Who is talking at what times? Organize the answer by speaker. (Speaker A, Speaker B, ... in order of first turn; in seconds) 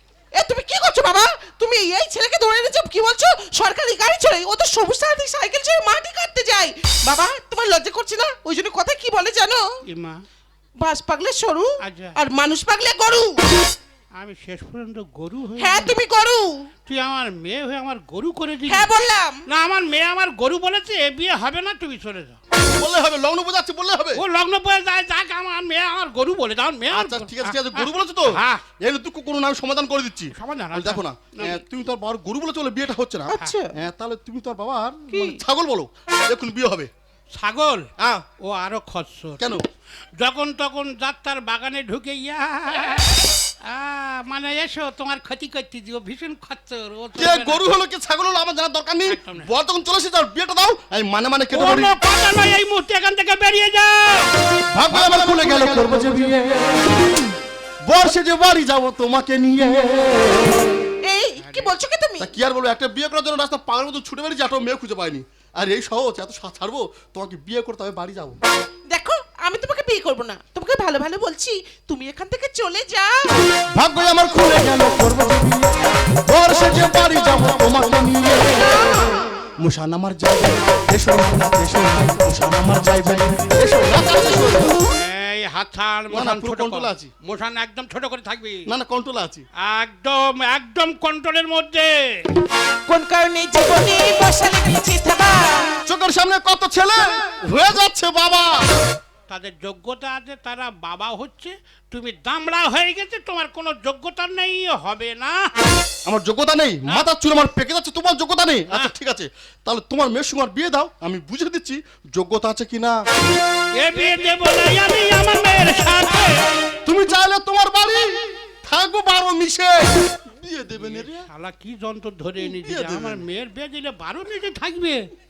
Speaker A: 0.4-9.6, 10.8-13.4, 15.6-16.7, 18.7-19.4, 33.3-33.7, 35.1-35.4, 61.1-62.3, 68.9-73.3, 78.8-79.0, 92.9-95.8
Speaker B: 9.9-10.2, 11.8-12.2, 14.2-16.0, 16.9-18.9, 19.5-22.4, 24.2-28.6, 30.4-31.6, 37.4-37.9, 38.4-39.5, 40.2-47.6, 49.1-49.5, 51.5-54.3, 61.4-61.7, 84.9-88.7, 89.6-92.2, 99.3-105.5, 113.8-116.4, 120.8-125.0
Speaker C: 22.6-24.2, 26.9-36.9, 38.0-38.2, 47.2-52.0, 54.8-56.9, 57.9-60.7, 62.2-68.4, 73.8-75.6, 76.2-79.1, 79.6-84.8, 86.1-87.1, 88.7-89.5, 95.9-98.7, 106.1-113.0, 116.8-121.3, 122.6-123.2